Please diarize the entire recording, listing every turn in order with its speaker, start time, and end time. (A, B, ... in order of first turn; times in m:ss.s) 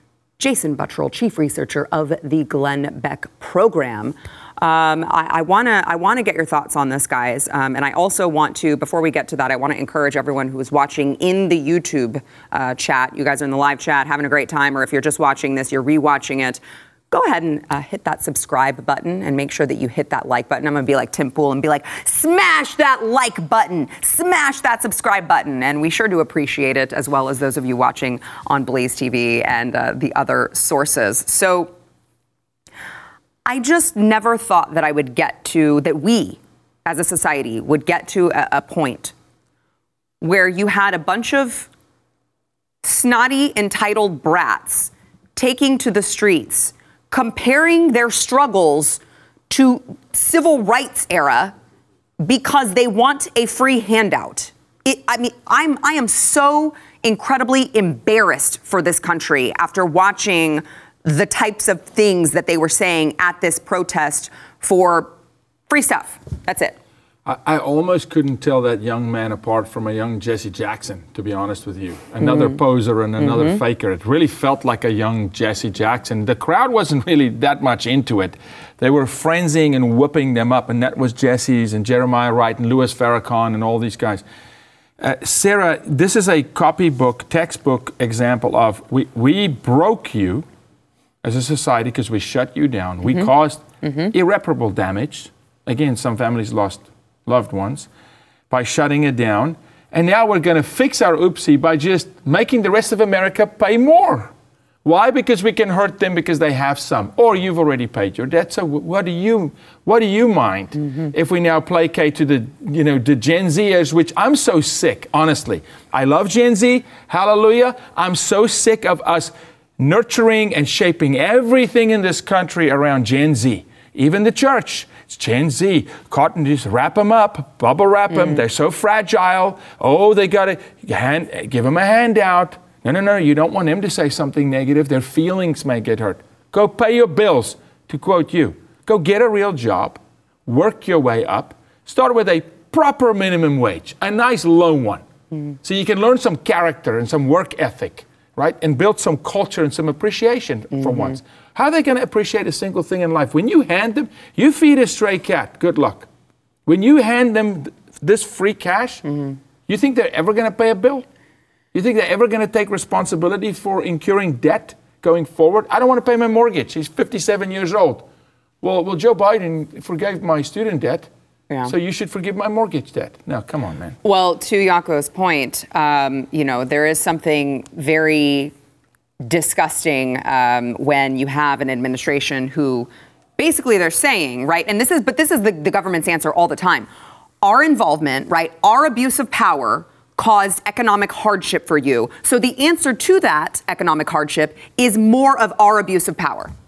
0:00.4-0:31.7 A
0:33.5-0:39.1 A
0:40.2-0:41.7 A
0:42.8-0:51.5 A
0:52.2-1:05.1 A
1:05.7-1:06.8 A
1:07.3-1:24.2 B
1:12.2-1:12.6 A
1:13.2-1:13.6 A
1:25.0-1:30.5 B
1:31.2-1:37.9 B
1:33.0-1:33.3 A
1:33.8-1:34.1 A
1:38.5-1:44.3 B
1:44.8-2:25.0 B
2:08.1-2:08.4 A
2:25.6-2:36.1 B
2:30.8-2:31.2 A
2:36.7-2:39.0 B
2:39.1-2:39.4 A
2:39.7-2:41.0 B
2:41.7-2:48.1 B
2:48.6-2:51.1 B
2:51.7-2:54.0 B
2:54.0-2:58.5 A
2:59.2-3:06.9 A
3:07.4-3:16.5 A